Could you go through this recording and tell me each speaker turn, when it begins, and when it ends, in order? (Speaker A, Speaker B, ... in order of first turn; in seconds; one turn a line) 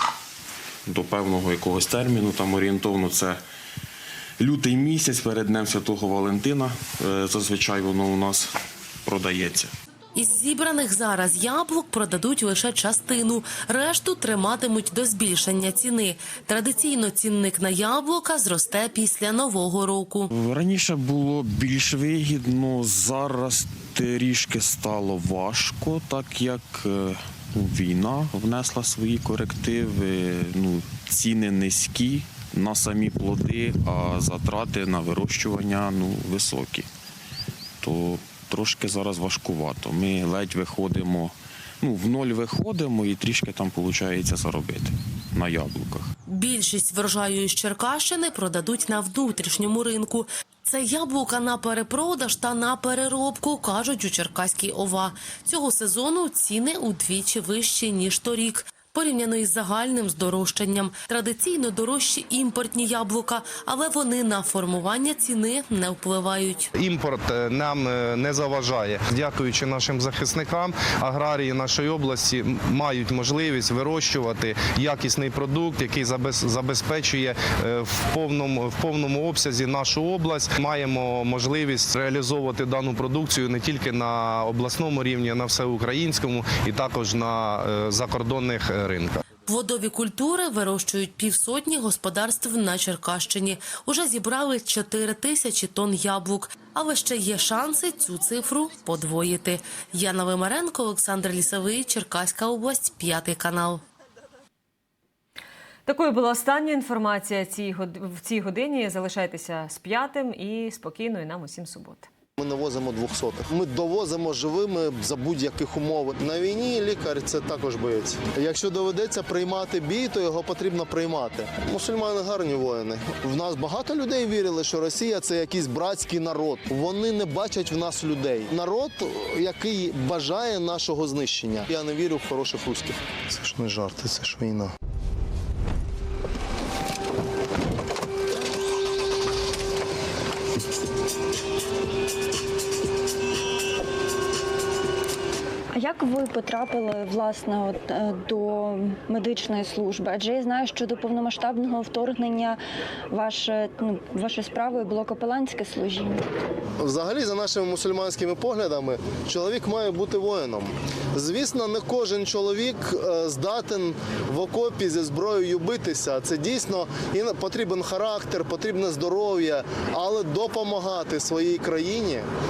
Speaker A: 0.9-3.4
Speaker A: 4.4-9.7
Speaker B: 10.2-20.3
Speaker A: 20.4-36.9
Speaker A: 37.8-46.1
Speaker B: 46.3-66.7
Speaker C: 66.8-89.2
Speaker B: 89.5-103.8
Speaker D: 105.9-112.1
Speaker E: 112.4-134.7
Speaker F: 145.7-152.6
Speaker F: 153.1-156.2
Speaker E: 156.8-172.3